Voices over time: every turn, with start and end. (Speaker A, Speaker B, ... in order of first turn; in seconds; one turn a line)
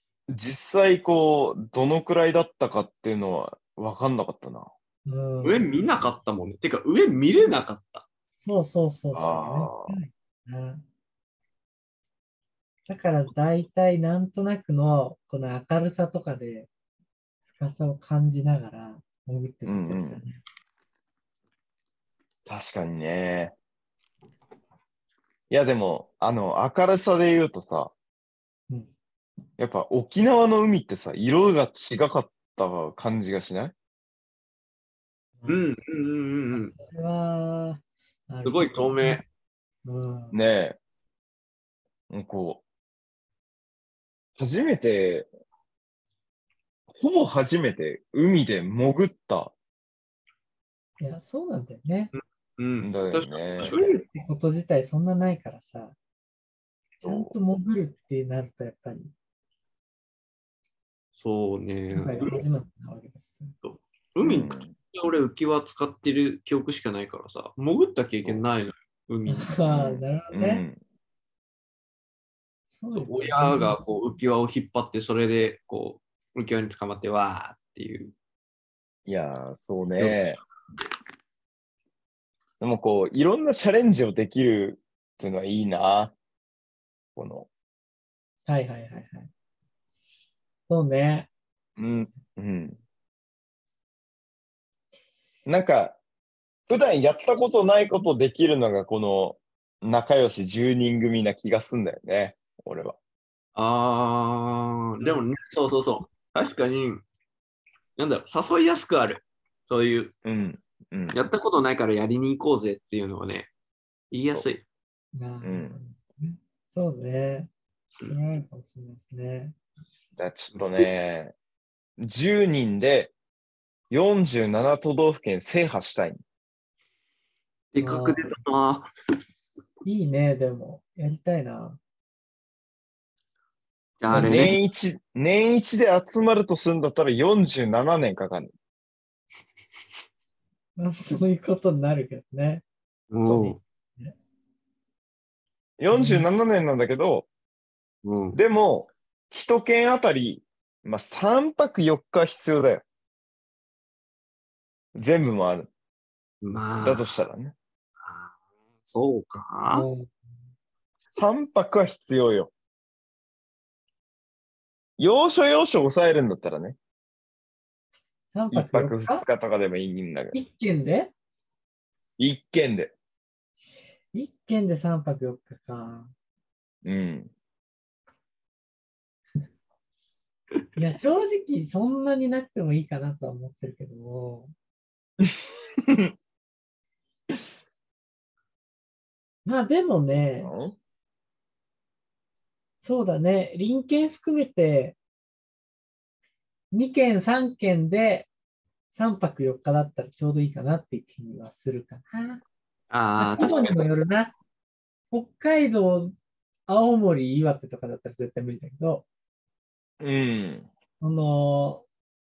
Speaker A: 0.3-4.7
Speaker B: 5.0-5.6
Speaker C: 5.4-8.1
Speaker B: 8.4-10.8
Speaker A: 9.1-9.9
Speaker B: 12.9-16.7
Speaker B: 17.5-20.4
Speaker A: 19.6-20.2
Speaker A: 22.4-23.5
Speaker A: 25.5-27.9
Speaker A: 29.6-33.7
Speaker B: 35.4-35.7
Speaker C: 35.5-36.7
Speaker B: 36.5-39.2
Speaker C: 38.4-39.2
Speaker B: 39.8-40.4
Speaker A: 40.3-40.8
Speaker A: 42.1-42.6
Speaker A: 44.4-45.3
Speaker A: 46.9-49.5
Speaker B: 51.0-52.1
Speaker C: 52.1-54.0
Speaker A: 52.8-53.7
Speaker B: 53.6-56.0
Speaker A: 57.0-57.3
Speaker B: 57.0-59.1
Speaker C: 61.1-62.4
Speaker B: 61.9-63.5
Speaker C: 63.6-69.5
Speaker A: 64.2-64.7
Speaker B: 69.3-70.6
Speaker A: 69.7-70.8
Speaker B: 72.7-73.8
Speaker C: 72.9-78.1
Speaker A: 79.0-80.4
Speaker C: 80.0-80.2
Speaker A: 82.6-86.1
Speaker A: 87.1-87.5
Speaker B: 88.5-89.3
Speaker B: 90.7-91.3
Speaker A: 91.8-92.8
Speaker A: 95.5-96.0
Speaker A: 96.7-103.0
Speaker C: 103.5-107.0
Speaker C: 108.0-110.1
Speaker A: 110.2-111.2
Speaker C: 111.1-113.5
Speaker C: 114.1-114.6
Speaker B: 115.1-117.5
Speaker A: 115.4-115.8
Speaker B: 118.1-119.5
Speaker A: 120.2-121.3
Speaker A: 122.0-123.1
Speaker A: 123.9-126.2
Speaker C: 127.7-128.9
Speaker B: 127.8-128.3
Speaker B: 129.8-131.8
Speaker C: 134.0-134.6
Speaker B: 134.1-134.5
Speaker A: 134.1-138.5
Speaker B: 140.8-142.6
Speaker C: 143.1-143.6
Speaker A: 143.2-143.5
Speaker A: 145.8-147.3
Speaker B: 145.9-146.2
Speaker C: 148.0-148.4
Speaker A: 148.3-152.8
Speaker A: 154.9-155.7
Speaker C: 156.4-157.1
Speaker A: 156.8-157.5
Speaker C: 158.0-158.3
Speaker C: 158.9-159.9
Speaker B: 159.7-160.1
Speaker A: 161.2-162.5
Speaker A: 165.0-166.8
Speaker B: 168.3-169.2
Speaker A: 168.5-170.3
Speaker B: 170.3-171.1
Speaker A: 172.2-172.9
Speaker B: 174.1-176.1
Speaker A: 176.8-177.3
Speaker B: 180.8-184.5
Speaker A: 185.2-186.1
Speaker B: 189.4-190.5
Speaker A: 190.4-190.8
Speaker B: 192.8-195.0
Speaker B: 196.7-198.3
Speaker B: 198.9-202.4
Speaker C: 202.9-203.7
Speaker B: 203.2-204.3
Speaker B: 205.1-206.1
Speaker B: 206.7-209.1
Speaker A: 210.0-210.7
Speaker B: 211.0-211.8